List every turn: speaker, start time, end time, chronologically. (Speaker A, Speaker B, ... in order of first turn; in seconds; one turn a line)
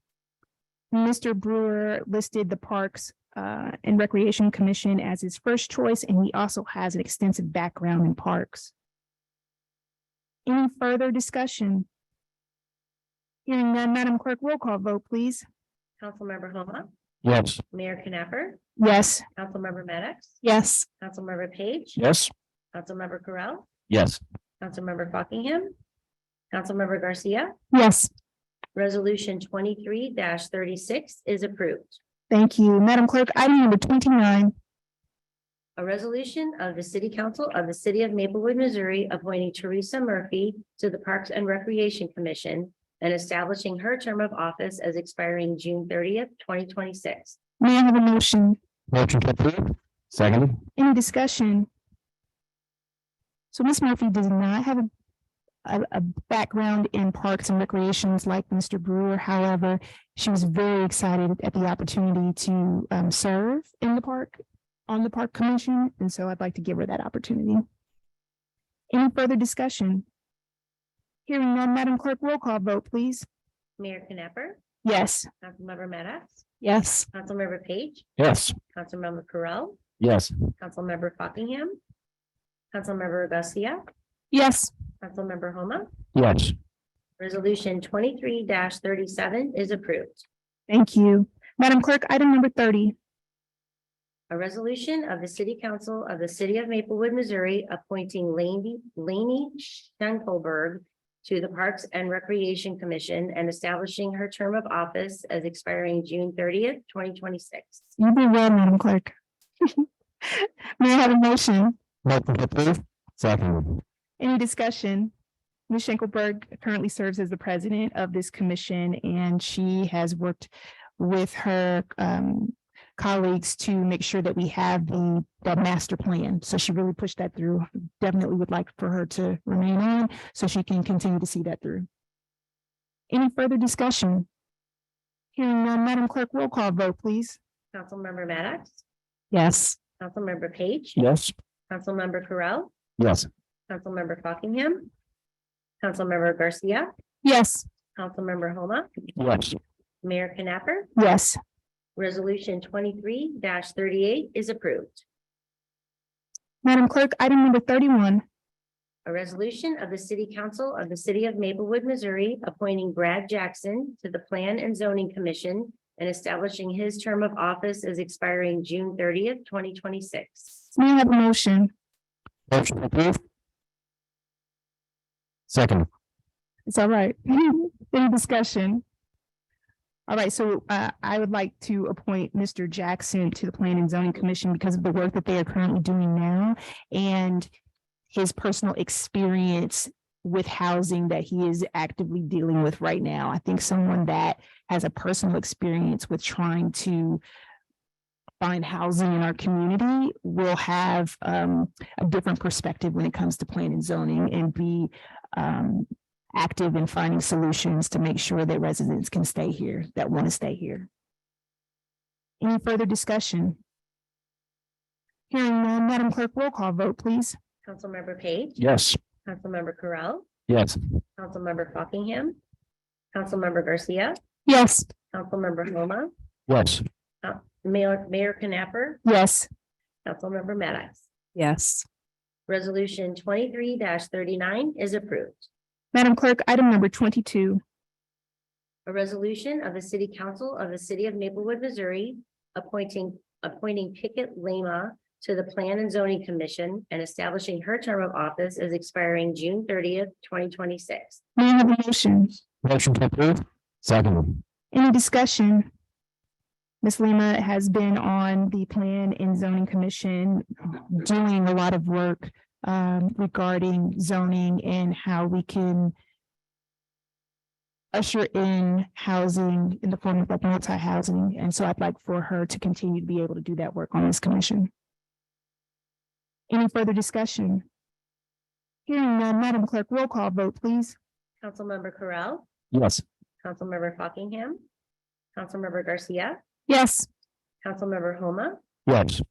Speaker A: 0.9-8.7
Speaker A: 10.5-11.9
Speaker A: 13.5-15.4
Speaker B: 16.0-16.9
Speaker C: 17.2-17.6
Speaker B: 17.7-18.6
Speaker A: 18.8-19.2
Speaker B: 19.4-20.4
Speaker A: 20.4-20.9
Speaker B: 21.0-22.0
Speaker C: 22.0-22.3
Speaker B: 22.7-23.7
Speaker C: 23.9-24.2
Speaker B: 24.6-25.7
Speaker B: 26.5-27.5
Speaker A: 27.7-28.1
Speaker B: 28.8-32.0
Speaker A: 32.3-34.5
Speaker B: 35.8-47.4
Speaker A: 47.6-48.6
Speaker C: 48.9-50.6
Speaker A: 50.8-51.7
Speaker A: 53.5-54.9
Speaker A: 55.6-67.6
Speaker A: 68.9-70.0
Speaker A: 71.3-73.3
Speaker B: 73.8-74.6
Speaker A: 74.8-75.3
Speaker B: 75.4-76.5
Speaker A: 76.6-77.1
Speaker B: 77.1-78.1
Speaker C: 78.2-78.6
Speaker B: 78.7-79.8
Speaker C: 80.0-80.3
Speaker B: 80.6-81.8
Speaker B: 82.7-83.8
Speaker A: 84.3-84.7
Speaker B: 85.0-85.9
Speaker C: 86.2-86.5
Speaker B: 87.2-90.2
Speaker A: 90.7-93.0
Speaker B: 94.3-107.9
Speaker A: 108.0-111.8
Speaker C: 112.0-113.8
Speaker A: 114.2-115.1
Speaker A: 115.7-131.9
Speaker A: 133.1-134.3
Speaker A: 135.3-137.4
Speaker B: 137.7-138.8
Speaker A: 139.3-139.8
Speaker B: 140.0-141.0
Speaker C: 141.0-141.3
Speaker B: 141.7-142.7
Speaker C: 143.0-143.3
Speaker B: 143.7-144.9
Speaker B: 145.8-146.9
Speaker A: 147.2-147.7
Speaker B: 148.0-148.9
Speaker C: 149.2-149.6
Speaker B: 150.0-150.9
Speaker A: 151.0-151.4
Speaker B: 152.0-155.0
Speaker A: 156.6-158.2
Speaker B: 159.1-170.5
Speaker A: 170.8-171.7
Speaker C: 172.5-173.2
Speaker C: 175.5-175.9
Speaker A: 176.7-178.8
Speaker A: 180.1-187.5
Speaker A: 188.1-197.2
Speaker A: 198.4-210.9
Speaker A: 212.4-213.6
Speaker A: 215.3-217.4
Speaker B: 217.7-218.6
Speaker C: 218.6-219.0
Speaker B: 219.2-220.3
Speaker C: 220.5-220.8
Speaker B: 221.2-222.4
Speaker B: 223.1-224.2
Speaker A: 224.5-224.9
Speaker B: 225.1-226.1
Speaker C: 226.5-226.8
Speaker B: 227.2-229.0
Speaker A: 229.1-229.5
Speaker B: 230.1-231.1
Speaker A: 231.4-231.8
Speaker B: 232.5-235.5
Speaker A: 235.9-237.6
Speaker B: 238.9-251.2
Speaker A: 251.4-252.4
Speaker C: 252.6-254.4
Speaker A: 254.7-255.7
Speaker A: 256.8-265.9
Speaker A: 267.9-274.7
Speaker A: 276.5-277.6
Speaker A: 278.9-281.0
Speaker B: 281.4-282.5
Speaker C: 282.7-283.0
Speaker B: 283.4-284.6
Speaker B: 285.4-286.4
Speaker A: 286.7-287.1
Speaker B: 287.6-288.6
Speaker C: 288.9-289.2